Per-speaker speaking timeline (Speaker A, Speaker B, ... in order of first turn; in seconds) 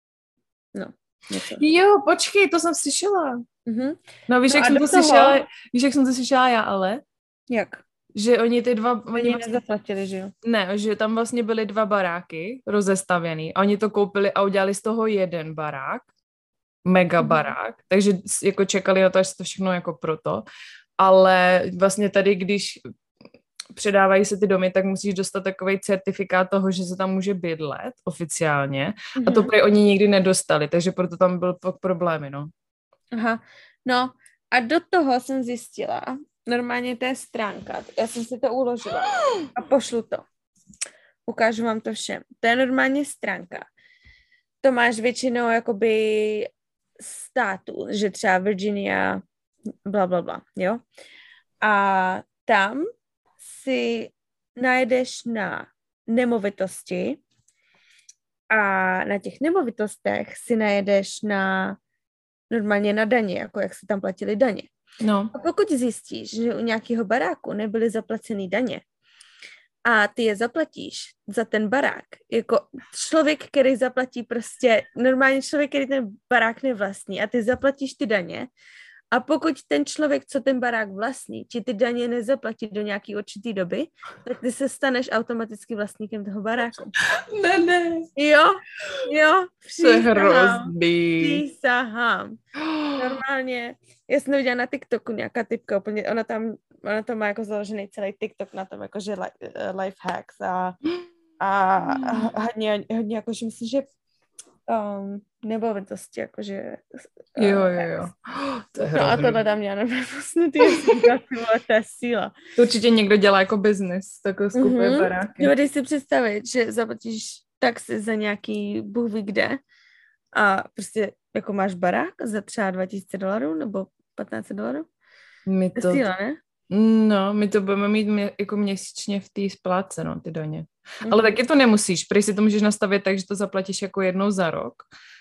Speaker A: 0.7-1.6, 3.7-5.4, 7.5-7.8, 9.1-10.3, 17.2-17.5, 29.2-29.5, 33.1-40.2, 41.3-43.7, 44.6-49.2, 49.9-50.8, 51.6-52.9, 53.4-57.2, 58.5-61.8, 62.5-64.7, 65.3-68.8, 69.8-78.5, 79.1-87.0, 88.2-92.4, 93.0-100.8, 101.4-103.9, 104.7-108.1, 108.8-112.3, 114.5-119.6, 120.3-124.9, 125.8-126.4, 131.1-131.3
Speaker B: 1.6-3.4, 4.3-7.0, 8.2-9.6, 10.4-16.1, 16.9-20.4, 21.0-22.8, 23.7-32.5, 65.0-65.3, 87.0-88.1, 89.8-91.4, 92.6-93.2, 101.9-102.3, 107.4-109.4, 112.6-115.5, 125.5-126.0, 126.7-134.9